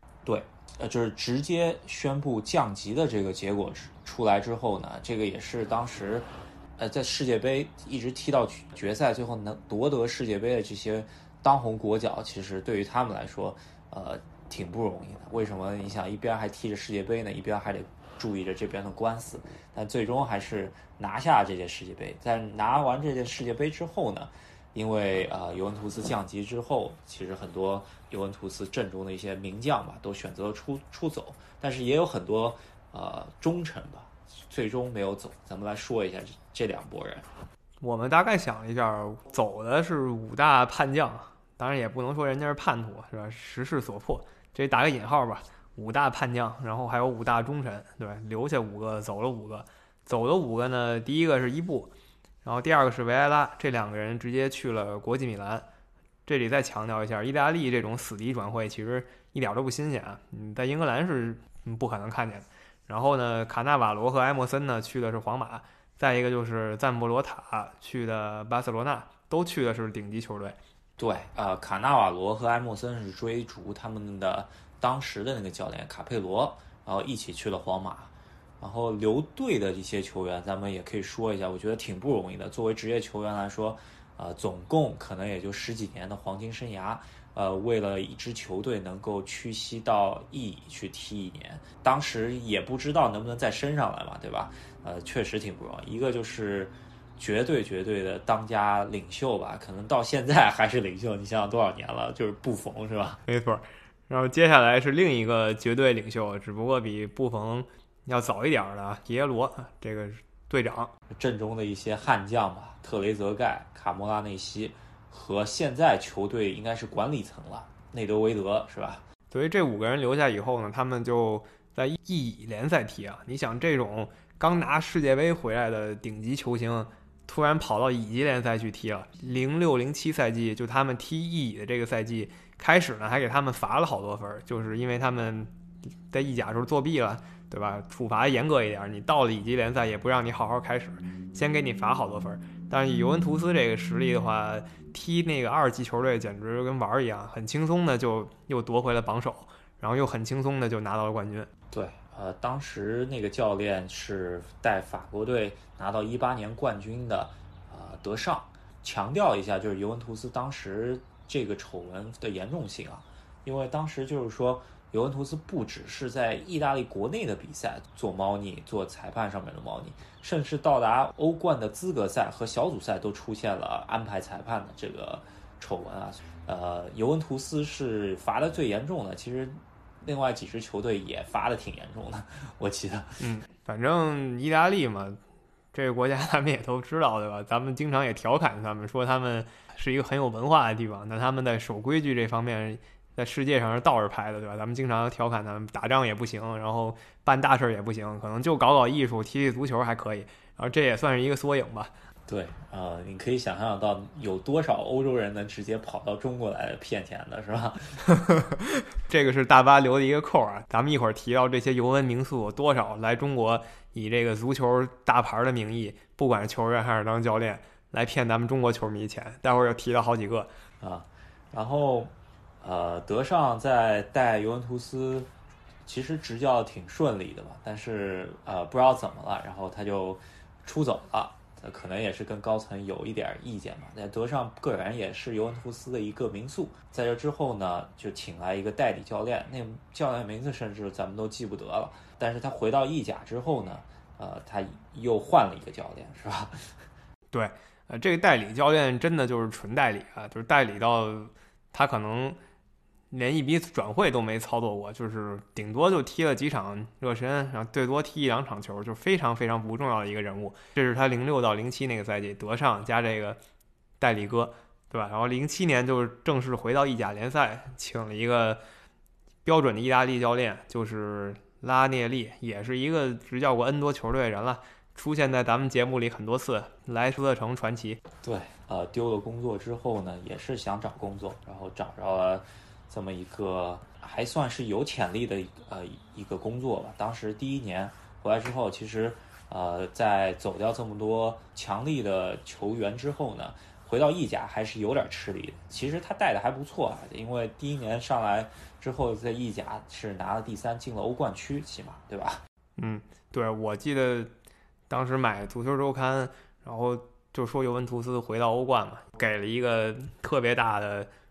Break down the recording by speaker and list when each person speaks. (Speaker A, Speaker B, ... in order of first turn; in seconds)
Speaker A: 0.2-37.3, 71.0-103.2, 111.1-119.0, 151.7-183.2, 202.3-208.0, 220.8-225.3, 225.8-246.7, 278.2-302.4
Speaker B: 37.8-51.9, 52.4-55.6, 56.2-70.6, 103.2-110.9, 119.3-135.5, 136.1-151.5, 183.2-185.2, 185.7-201.9, 208.1-220.5, 247.3-252.4, 253.1-263.4, 264.0-268.6, 269.4-278.0, 302.8-304.3, 304.9-311.1